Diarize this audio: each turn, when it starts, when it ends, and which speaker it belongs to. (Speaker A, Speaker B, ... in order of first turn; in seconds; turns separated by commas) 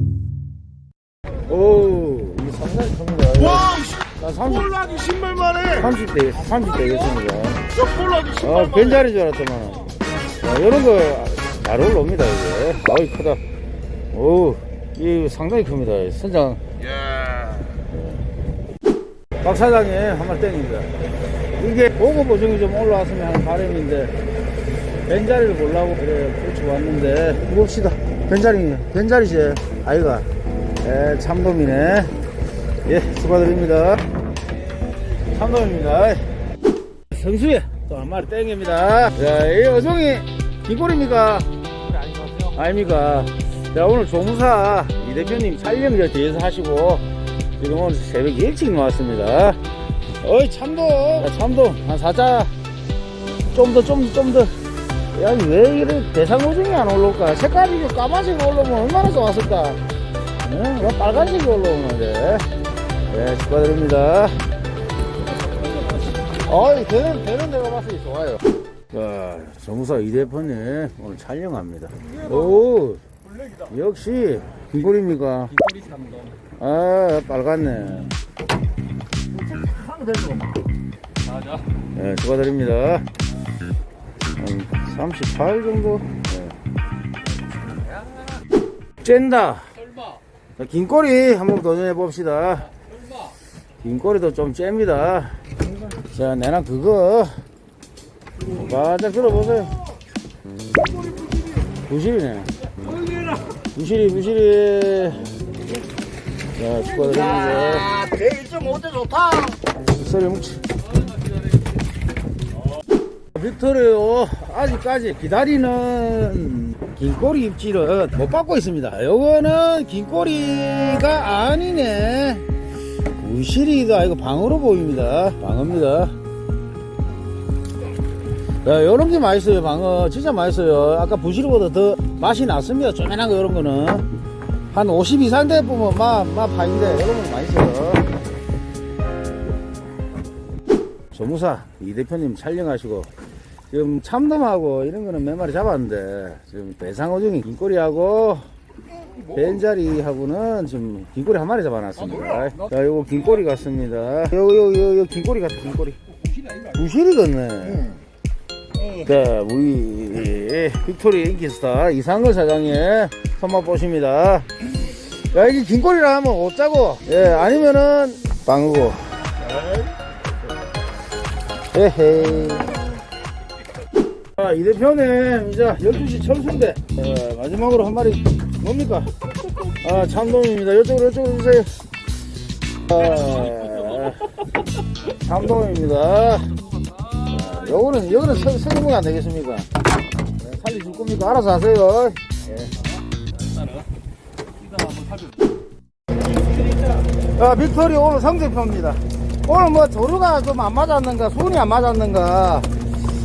Speaker A: 1.5-13.4, Speaker B: 4.8-5.6, Speaker B: 7.9-8.3, Speaker A: 14.1-16.6, Speaker A: 17.6-18.2, Speaker A: 19.4-20.9, Speaker A: 21.6-24.1, Speaker A: 25.1-30.3, Speaker A: 30.8-32.1, Speaker A: 32.9-34.0, Speaker A: 35.3-36.3, Speaker A: 37.1-41.5, Speaker B: 42.0-42.4, Speaker A: 42.4-47.1, Speaker A: 47.6-49.6, Speaker A: 50.2-52.5, Speaker A: 53.5-54.5, Speaker A: 55.1-59.8, Speaker A: 60.4-62.5, Speaker A: 63.1-64.4, Speaker A: 66.3-73.0, Speaker A: 73.6-75.6, Speaker B: 75.7-76.3, Speaker A: 76.6-78.1, Speaker B: 79.8-80.4, Speaker A: 81.8-83.1, Speaker A: 84.4-86.6, Speaker A: 89.0-89.7, Speaker A: 90.6-92.7, Speaker A: 93.8-95.4, Speaker A: 95.9-97.4, Speaker A: 98.5-99.8, Speaker A: 101.9-102.5, Speaker A: 103.7-105.3, Speaker A: 106.6-108.1, Speaker B: 108.0-109.5, Speaker A: 109.9-110.6, Speaker A: 113.3-122.5, Speaker A: 123.2-126.2, Speaker A: 128.6-134.1, Speaker A: 134.7-138.1, Speaker A: 141.1-143.1, Speaker A: 143.7-148.5, Speaker A: 149.3-156.0, Speaker A: 156.5-158.0, Speaker A: 158.8-164.5, Speaker A: 165.1-169.0, Speaker A: 171.7-172.7, Speaker A: 174.4-179.1, Speaker A: 179.8-181.7, Speaker A: 182.9-184.3, Speaker A: 185.2-186.6, Speaker A: 187.2-189.7, Speaker A: 190.4-192.7, Speaker A: 197.2-202.7